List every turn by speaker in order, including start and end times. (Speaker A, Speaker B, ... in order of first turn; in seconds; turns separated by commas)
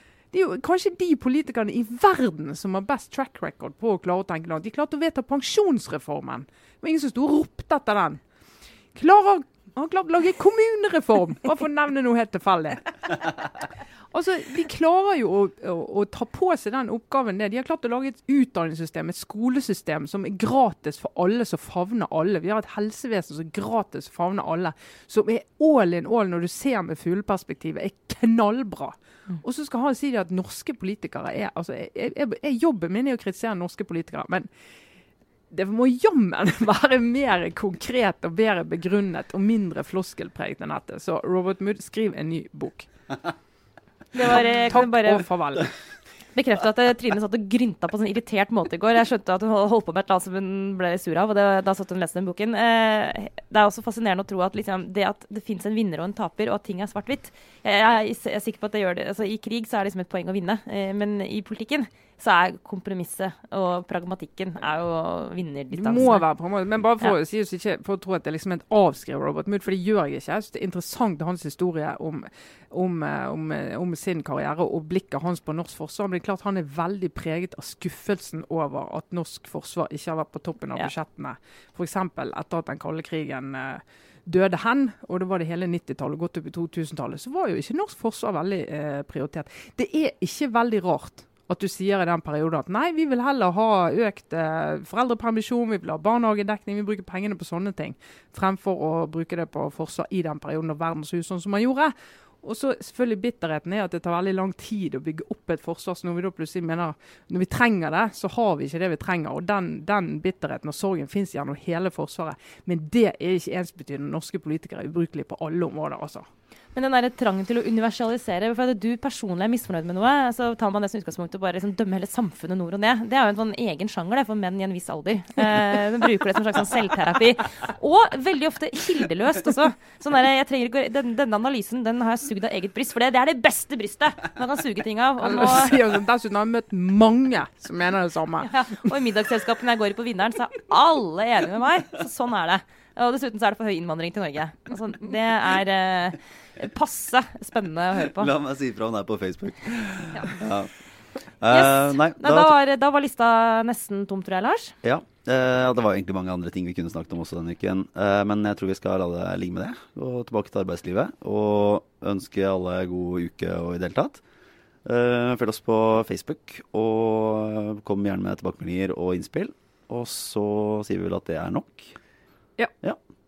Speaker A: 0.3-8.2, Speaker A: 8.9-12.9, Speaker A: 14.1-34.5, Speaker A: 35.5-42.9, Speaker B: 44.1-45.3, Speaker A: 44.7-45.7, Speaker B: 46.4-66.2, Speaker A: 65.7-116.3, Speaker B: 116.8-135.8, Speaker A: 135.2-138.5, Speaker B: 138.4-148.3, Speaker C: 148.1-150.7, Speaker C: 151.4-152.6, Speaker B: 151.5-154.8, Speaker C: 154.8-164.2, Speaker C: 164.8-172.0